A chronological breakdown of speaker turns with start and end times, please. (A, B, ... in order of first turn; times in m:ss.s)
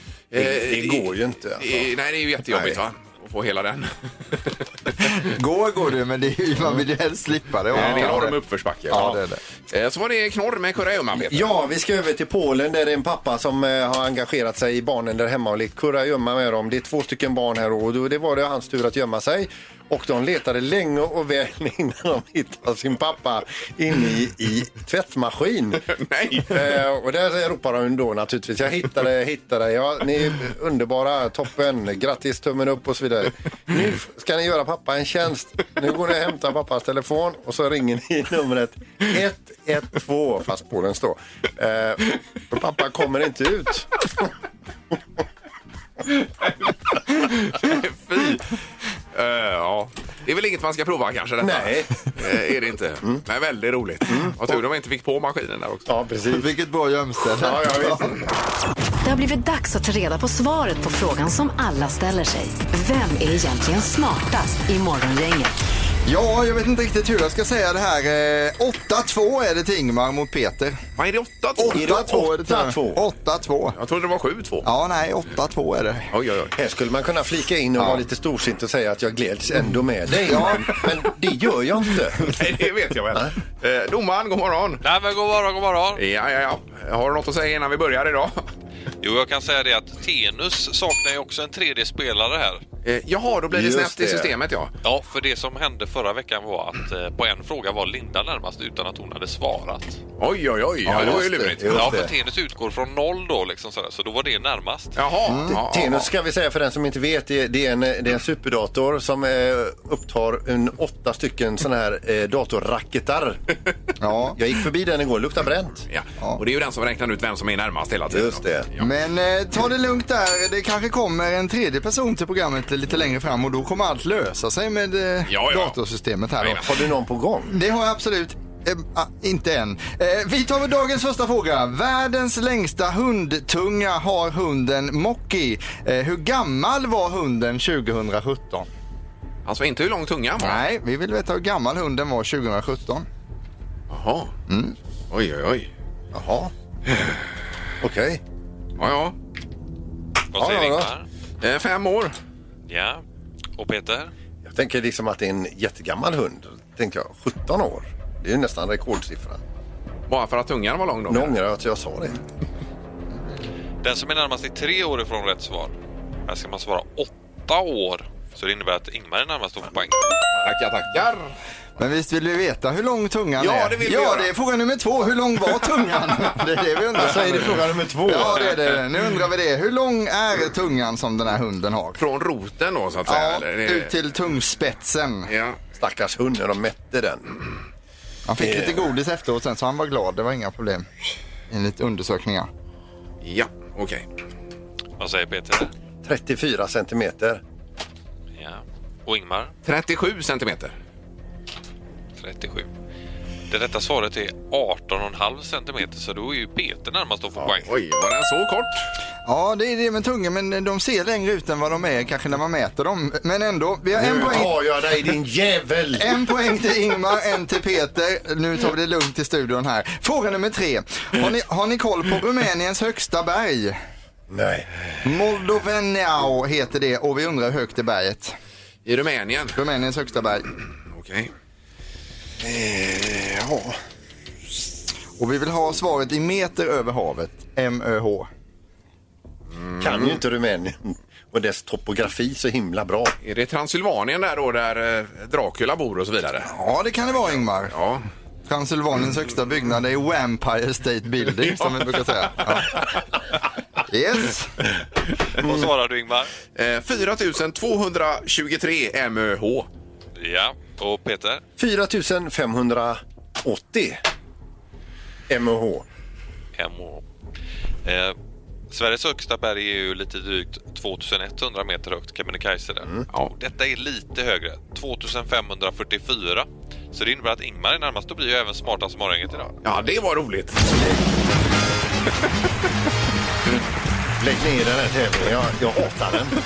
0:00.3-0:05.0 A
0:00.3-0:01.9 B
0:05.2-0:08.4 C
0:07.7-0:09.2 A
0:08.9-0:09.4 C
0:09.7-0:11.4 A
0:11.1-0:44.3 B
0:25.9-0:26.7 A
0:47.1-0:48.6 A
0:49.1-0:55.9 A
0:51.4-0:52.3 B
0:54.1-0:54.5 B
0:55.9-0:56.5 B
0:56.3-0:58.1 C
0:57.4-0:58.2 B
0:59.0-1:05.5 D
1:06.0-1:10.8 C
1:11.0-1:11.8 A
1:11.6-1:13.8 C
1:11.7-1:13.0 B
1:13.8-1:14.6 A
1:14.6-1:16.1 C
1:16.1-1:16.5 A
1:16.5-1:22.4 B
1:20.2-1:20.7 C
1:22.2-1:24.8 A
1:24.8-1:26.0 E
1:26.0-1:28.4 A
1:29.0-1:32.6 E
1:32.8-1:34.7 A
1:33.5-1:34.3 B
1:34.8-1:40.0 E
1:40.2-1:42.0 A
1:40.9-1:42.1 B
1:40.9-1:41.5 C
1:41.7-1:45.0 E
1:45.0-1:46.1 A
1:45.3-1:45.6 C
1:45.5-1:53.4 B
1:54.0-1:54.4 C
1:54.3-1:55.8 B
1:55.9-1:58.8 A
1:58.1-1:58.7 B
1:58.8-2:06.6 C
2:05.3-2:05.8 A
2:06.6-2:07.5 B
2:07.5-2:18.7 C
2:19.4-2:20.6 A
2:20.4-2:23.1 C
2:23.9-2:24.3 A
2:24.5-2:24.7 C
2:25.1-2:25.7 A
2:26.1-2:26.5 B
2:26.9-2:27.2 A
2:27.8-2:28.2 B
2:28.8-2:29.1 A
2:30.3-2:31.0 E
2:30.4-2:30.9 B
2:31.4-2:32.1 A
2:32.7-2:33.0 E
2:33.6-2:34.1 E
2:34.4-2:39.4 B
2:40.1-2:41.3 A
2:41.1-2:42.2 B
2:43.8-2:45.8 E
2:46.3-2:50.2 E
2:50.4-2:51.3 A
2:51.8-3:02.0 C
2:53.4-2:54.3 A
2:56.9-2:58.4 B
3:02.0-3:03.9 A
3:03.1-3:05.3 C
3:05.3-3:05.6 A
3:05.7-3:07.4 B
3:08.2-3:10.9 C
3:08.4-3:08.9 B
3:11.5-3:12.5 C
3:13.2-3:14.0 A
3:15.0-3:15.7 E
3:16.0-3:17.4 B
3:18.4-3:19.5 E
3:19.6-3:20.7 A
3:22.2-3:22.7 E
3:23.5-3:27.7 E
3:27.6-3:28.9 A
3:29.2-3:34.5 C
3:33.9-3:36.1 B
3:36.0-3:43.8 C
3:44.3-3:44.7 B
3:45.0-3:48.4 C
3:48.8-3:49.6 A
3:49.6-3:50.5 C
3:50.9-3:51.3 A
3:52.4-3:53.8 B
3:55.2-3:58.3 C
3:59.6-4:00.2 A
3:59.8-4:03.1 B
4:03.2-4:06.5 A
4:06.4-4:07.7 C
4:07.7-4:08.0 A
4:08.5-4:12.8 C
4:11.6-4:12.8 A
4:13.9-4:14.5 C
4:15.4-4:16.3 E
4:16.5-4:19.7 A
4:20.2-4:21.4 E
4:21.6-4:24.0 B
4:25.3-4:25.8 B
4:26.6-4:27.0 E
4:27.8-4:28.2 E
4:28.7-4:39.5 E
4:39.6-4:40.7 A
4:44.2-4:46.4 B